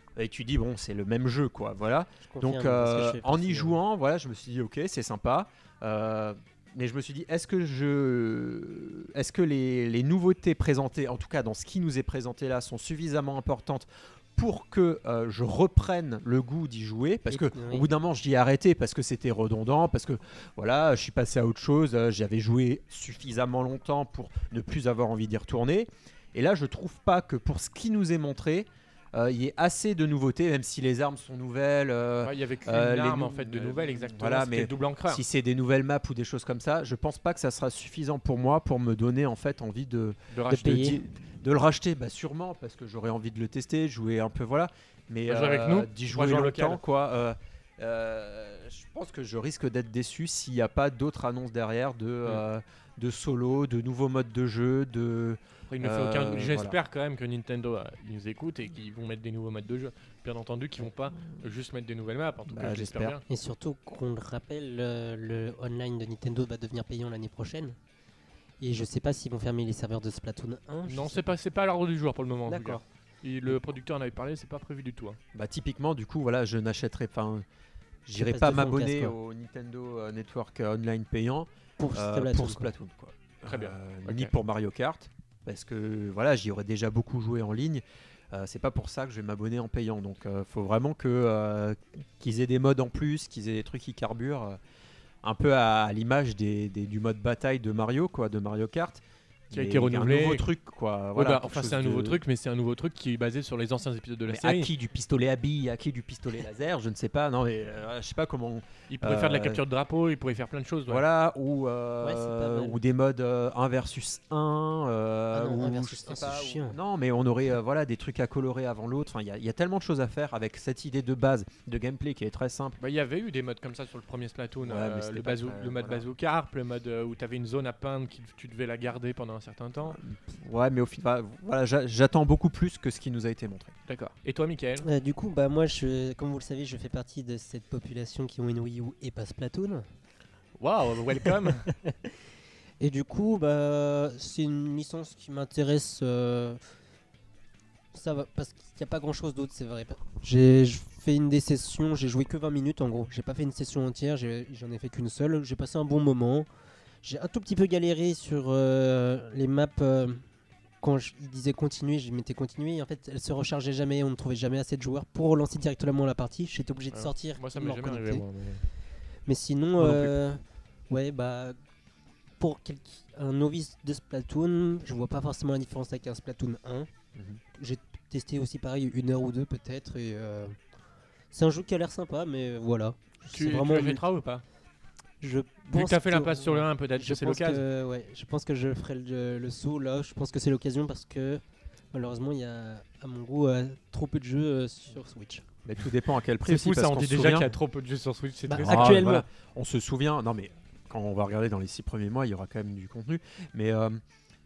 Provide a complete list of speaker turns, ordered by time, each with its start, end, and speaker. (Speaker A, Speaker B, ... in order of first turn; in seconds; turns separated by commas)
Speaker A: 0.1-56.8, Speaker B: 2.3-3.8, Speaker B: 17.3-17.9, Speaker C: 32.2-35.2, Speaker C: 40.3-40.9, Speaker B: 40.5-41.0, Speaker C: 45.3-46.8, Speaker C: 55.7-63.2, Speaker A: 62.5-63.2, Speaker B: 63.3-67.8, Speaker B: 68.6-71.2, Speaker C: 70.8-75.2, Speaker B: 72.5-72.8, Speaker A: 75.3-77.4, Speaker A: 78.0-94.6, Speaker B: 78.1-79.1, Speaker B: 81.8-82.7, Speaker C: 83.5-84.3, Speaker A: 95.2-102.2, Speaker C: 99.5-100.5, Speaker C: 101.1-104.7, Speaker A: 104.3-109.6, Speaker C: 108.9-111.0, Speaker A: 110.9-122.8, Speaker B: 112.0-112.8, Speaker B: 115.3-116.8, Speaker C: 122.8-130.0, Speaker A: 124.6-126.0, Speaker A: 129.9-133.7, Speaker C: 133.9-134.9, Speaker B: 134.8-139.8, Speaker C: 140.6-141.7, Speaker B: 141.2-142.1, Speaker B: 142.8-146.6, Speaker B: 147.9-156.5, Speaker B: 157.0-160.2, Speaker B: 160.8-168.2, Speaker C: 166.9-168.6, Speaker B: 169.2-171.6, Speaker A: 169.8-170.1, Speaker B: 172.4-176.9, Speaker A: 177.1-177.4, Speaker B: 177.5-180.6, Speaker B: 181.3-184.0, Speaker C: 183.3-184.4, Speaker B: 185.2-191.4, Speaker C: 185.7-187.6, Speaker B: 191.9-195.4, Speaker A: 195.6-197.5, Speaker C: 196.4-199.2, Speaker B: 198.5-199.2, Speaker A: 198.6-204.0